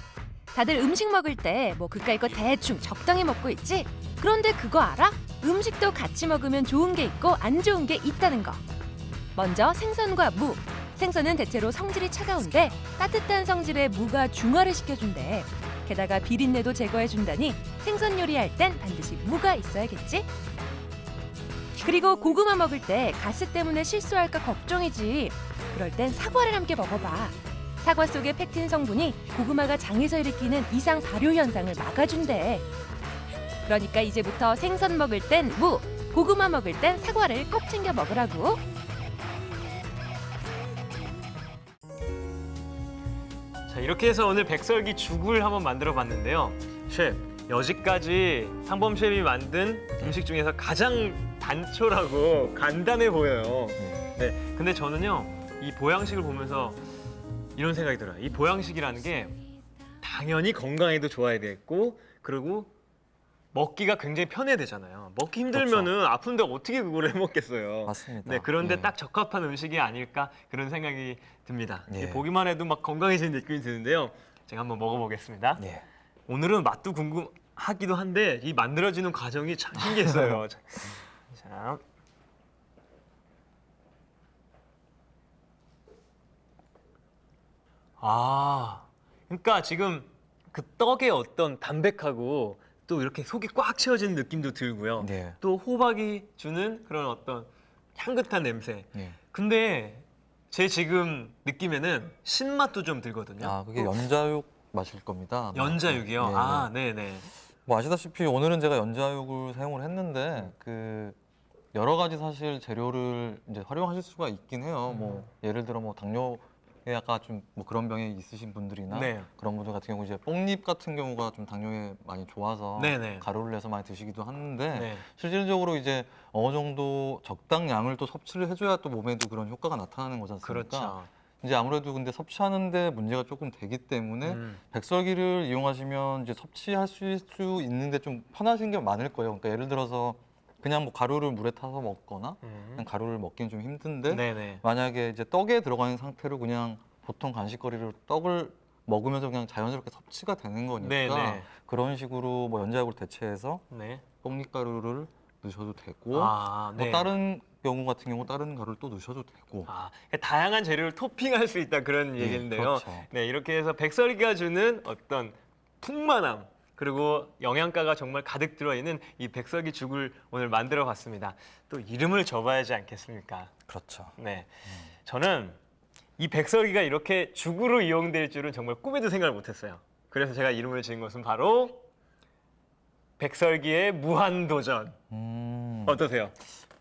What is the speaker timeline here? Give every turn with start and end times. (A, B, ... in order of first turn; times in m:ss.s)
0:00.5-0:08.6 A
0:09.4-0:20.3 A
0:21.8-0:32.7 A
0:33.6-0:38.6 A
0:43.7-0:56.8 B
0:53.8-0:54.0 C
0:57.5-0:59.3 B
1:00.0-1:02.7 B
1:03.5-1:15.6 B
1:05.5-1:05.9 C
1:07.8-1:08.9 C
1:11.9-1:12.2 C
1:15.6-1:15.8 C
1:16.3-1:21.8 B
1:28.0-1:44.1 B
1:35.0-1:35.4 C
1:43.4-1:46.7 C
1:45.5-1:47.3 B
1:47.6-1:51.2 C
1:51.7-2:33.6 C
1:54.9-1:55.3 B
1:58.9-1:59.3 B
2:02.8-2:03.2 B
2:04.7-2:05.0 B
2:10.4-2:11.1 B
2:14.2-2:14.6 B
2:22.4-2:22.8 B
2:24.1-2:24.6 B
2:30.8-2:31.5 B
2:33.7-2:34.0 B
2:34.2-2:39.7 C
2:36.1-2:37.1 B
2:39.7-2:53.5 B
2:42.2-2:43.1 C
2:53.7-2:54.2 C
2:54.2-2:54.5 B
2:55.0-2:55.6 B
2:56.2-3:01.8 B
3:03.2-3:05.0 B
3:05.1-3:06.0 C
3:05.8-3:06.3 B